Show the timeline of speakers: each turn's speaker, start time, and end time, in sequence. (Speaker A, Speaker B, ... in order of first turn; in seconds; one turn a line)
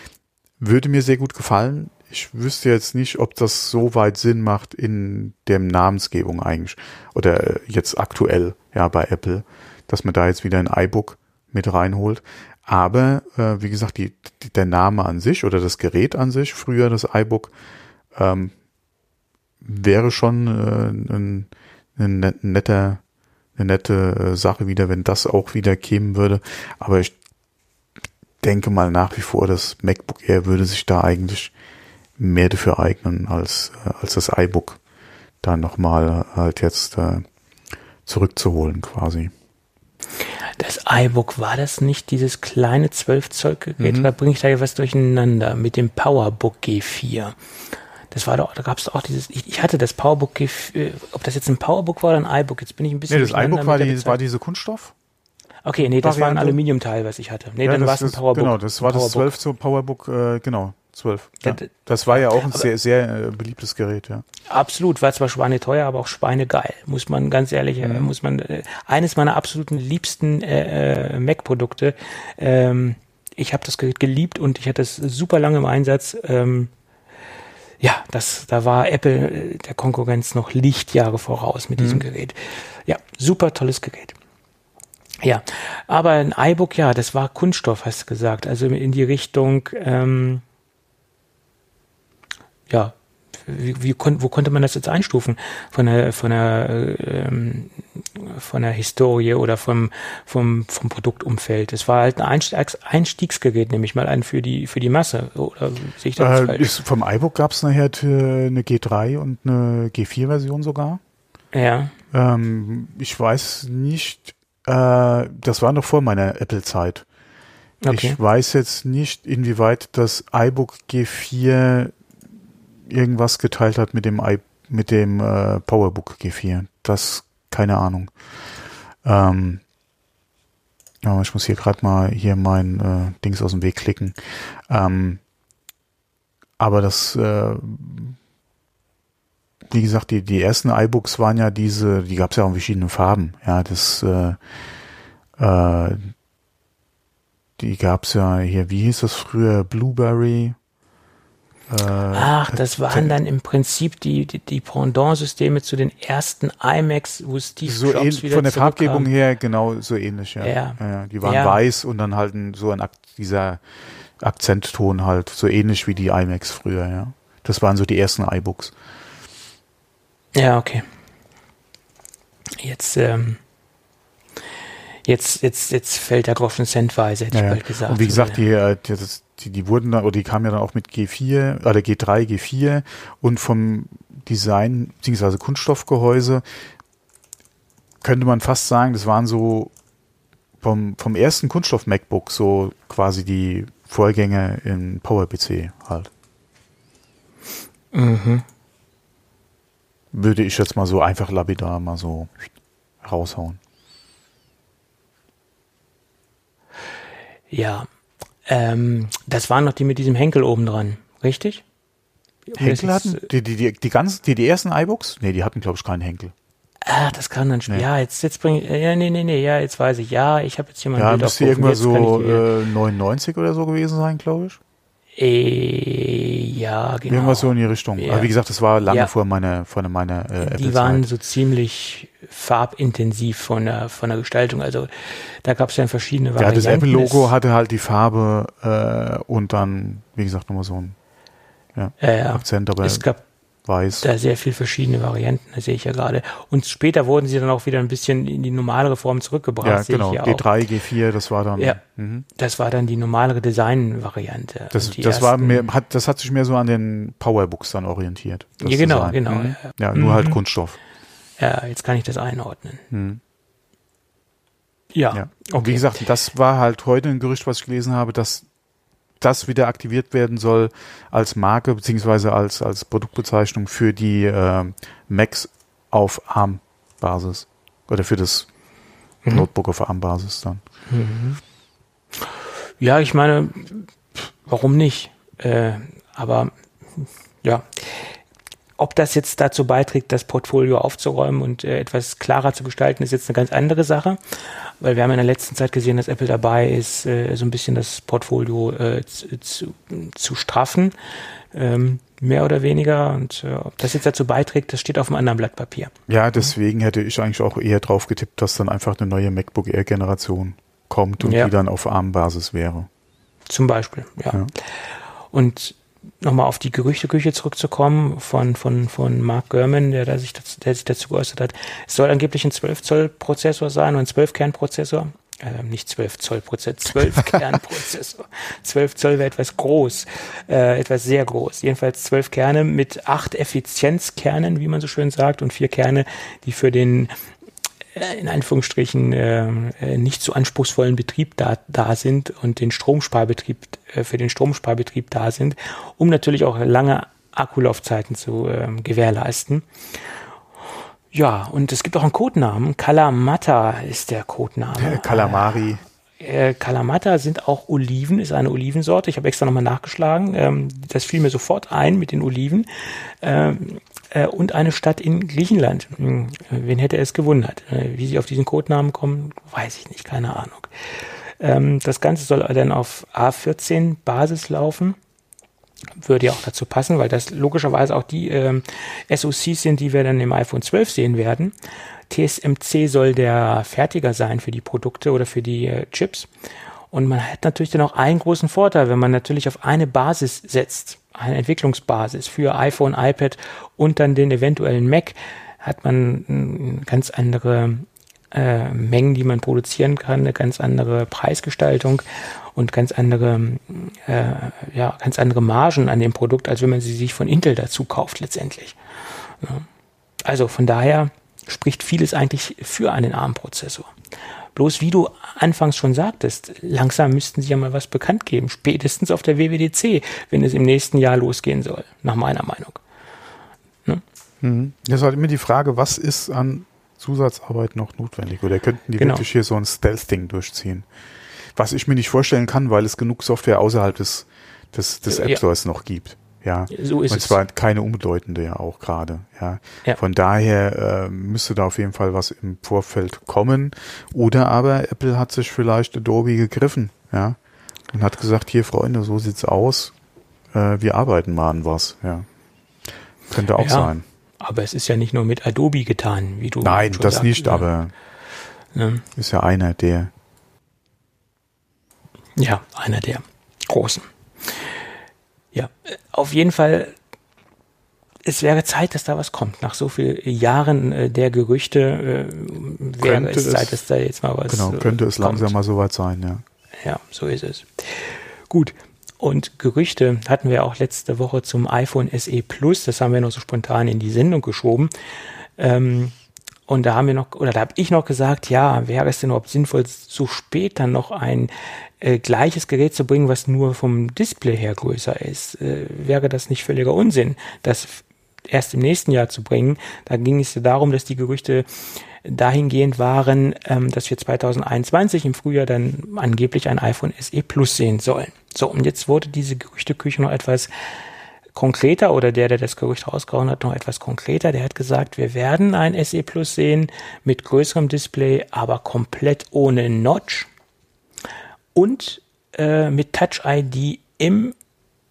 Speaker A: 0.6-17.5
Speaker A: 18.1-18.5
Speaker A: 19.6-23.0
Speaker A: 23.6-27.1
Speaker A: 28.4-31.5
Speaker A: 32.2-34.8
Speaker A: 35.4-37.3
Speaker A: 38.1-39.3
Speaker B: 40.6-47.4
Speaker A: 43.8-44.1
Speaker B: 48.1-54.2
Speaker A: 53.1-54.9
Speaker B: 55.6-59.3
Speaker A: 55.9-56.6
Speaker A: 57.6-64.2
Speaker B: 61.4-62.7
Speaker B: 64.5-76.7
Speaker A: 67.8-68.1
Speaker B: 77.8-84.2
Speaker A: 81.8-82.0
Speaker B: 85.2-90.4
Speaker B: 92.7-93.0
Speaker B: 93.5-106.8
Speaker A: 106.2-111.0
Speaker B: 111.5-112.0
Speaker A: 112.1-117.1
Speaker B: 117.8-118.2
Speaker A: 117.9-122.0
Speaker A: 122.9-128.1
Speaker A: 129.0-129.6
Speaker A: 131.0-134.2
Speaker A: 134.7-135.2
Speaker A: 136.6-138.2
Speaker A: 139.7-144.4
Speaker A: 145.4-146.1
Speaker A: 147.6-150.6
Speaker A: 151.7-153.1
Speaker B: 152.1-159.1
Speaker A: 157.7-163.6
Speaker B: 160.4-161.6
Speaker A: 164.2-168.7
Speaker B: 170.3-170.9
Speaker B: 172.6-173.4
Speaker B: 175.1-178.4
Speaker A: 177.3-186.4
Speaker A: 188.0-189.7
Speaker A: 190.6-196.1
Speaker B: 197.9-198.4
Speaker A: 200.1-202.3
Speaker A: 203.0-203.6
Speaker B: 207.5-207.9
Speaker B: 208.5-211.6
Speaker B: 212.5-213.3
Speaker A: 212.6-216.3
Speaker B: 216.9-222.4
Speaker A: 221.0-224.6
Speaker B: 225.2-228.3
Speaker A: 227.1-231.0
Speaker B: 230.4-234.9
Speaker B: 235.4-237.3
Speaker A: 236.4-241.0
Speaker A: 241.8-243.1
Speaker B: 242.0-243.2
Speaker A: 243.7-244.1
Speaker B: 244.0-250.5
Speaker A: 249.6-252.3
Speaker B: 252.4-255.7
Speaker A: 254.7-260.8
Speaker B: 258.6-260.4
Speaker B: 261.4-262.8
Speaker A: 262.9-263.2
Speaker B: 264.9-265.9
Speaker A: 265.1-268.5
Speaker A: 269.2-278.5
Speaker A: 279.3-280.6
Speaker B: 280.9-281.4
Speaker B: 282.8-288.2
Speaker B: 288.8-300.9
Speaker B: 301.5-305.9
Speaker A: 306.1-312.9
Speaker B: 311.2-311.5
Speaker B: 313.5-314.4
Speaker B: 315.3-337.1
Speaker B: 337.9-349.7
Speaker B: 351.1-355.7
Speaker A: 354.8-355.8
Speaker B: 356.2-370.7
Speaker B: 371.4-375.0
Speaker B: 376.0-381.5
Speaker B: 382.1-386.3
Speaker B: 386.9-402.0
Speaker B: 402.6-408.8
Speaker B: 409.4-409.7
Speaker B: 410.2-413.9
Speaker B: 414.6-422.8
Speaker A: 424.4-430.9
Speaker B: 429.0-429.2
Speaker A: 431.6-447.4
Speaker B: 435.1-435.4
Speaker B: 436.7-437.4
Speaker A: 447.9-449.9
Speaker A: 450.5-452.3
Speaker A: 453.3-454.0
Speaker B: 453.6-457.7
Speaker A: 456.6-457.9
Speaker B: 458.8-459.1
Speaker A: 459.2-460.1
Speaker B: 462.4-464.7
Speaker B: 465.5-466.9
Speaker B: 468.2-475.5
Speaker A: 473.0-473.8
Speaker A: 474.5-476.4
Speaker B: 476.8-484.9
Speaker B: 485.6-486.1
Speaker B: 486.7-501.7
Speaker B: 502.2-510.7
Speaker B: 511.5-520.5
Speaker B: 521.8-524.5